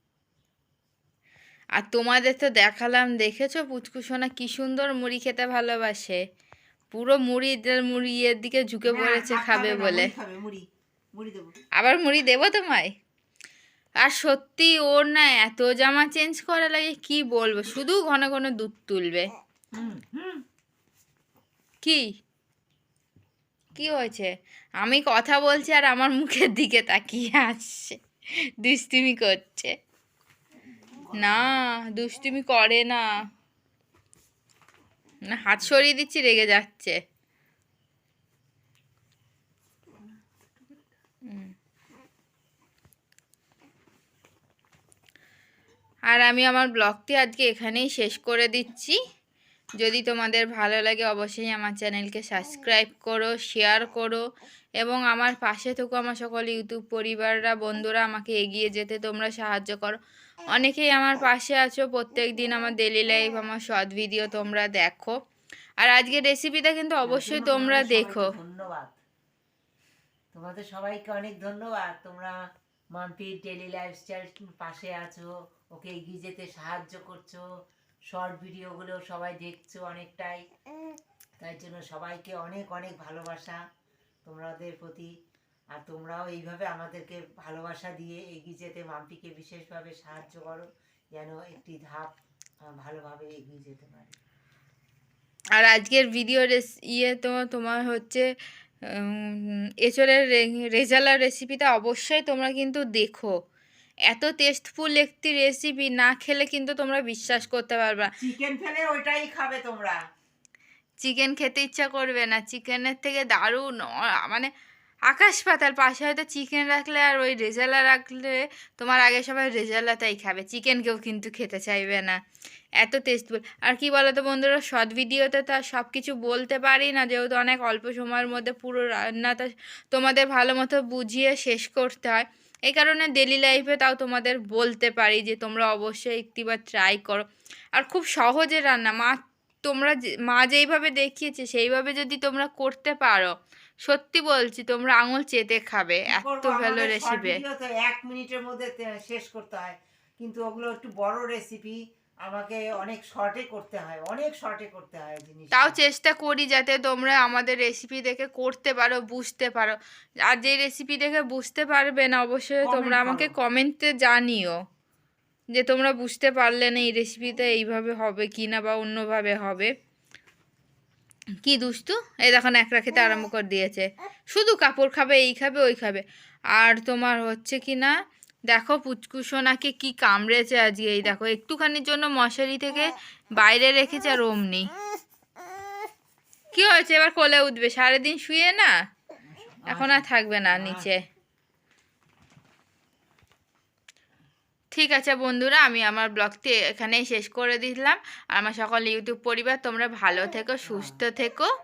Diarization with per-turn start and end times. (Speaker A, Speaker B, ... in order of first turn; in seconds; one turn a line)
Speaker A: 1.8-6.2
Speaker A: 6.9-10.1
Speaker B: 8.9-11.5
Speaker A: 11.8-12.9
Speaker A: 14.0-19.3
Speaker B: 19.7-20.4
Speaker A: 21.8-22.1
Speaker A: 23.8-24.3
Speaker A: 24.8-28.0
Speaker A: 28.6-29.7
Speaker A: 31.2-33.1
Speaker A: 35.3-37.0
Speaker A: 46.1-49.0
Speaker A: 49.8-54.2
Speaker A: 54.8-60.0
Speaker A: 60.5-65.2
Speaker A: 65.8-68.3
Speaker B: 67.0-69.0
Speaker B: 70.3-72.3
Speaker B: 73.0-77.4
Speaker B: 78.1-80.4
Speaker B: 81.4-83.6
Speaker B: 84.2-85.1
Speaker B: 85.8-92.2
Speaker B: 92.7-94.2
Speaker A: 95.6-98.3
Speaker A: 98.9-103.3
Speaker A: 104.1-108.1
Speaker B: 108.2-110.0
Speaker A: 111.0-114.5
Speaker A: 115.1-122.2
Speaker A: 122.8-147.4
Speaker B: 146.1-155.8
Speaker A: 155.5-164.6
Speaker B: 162.6-163.3
Speaker A: 165.5-169.7
Speaker A: 171.4-176.0
Speaker A: 176.6-177.9
Speaker A: 178.5-184.7
Speaker A: 186.5-188.7
Speaker B: 189.3-190.9
Speaker A: 189.7-191.0
Speaker A: 194.7-201.5
Speaker B: 200.7-201.0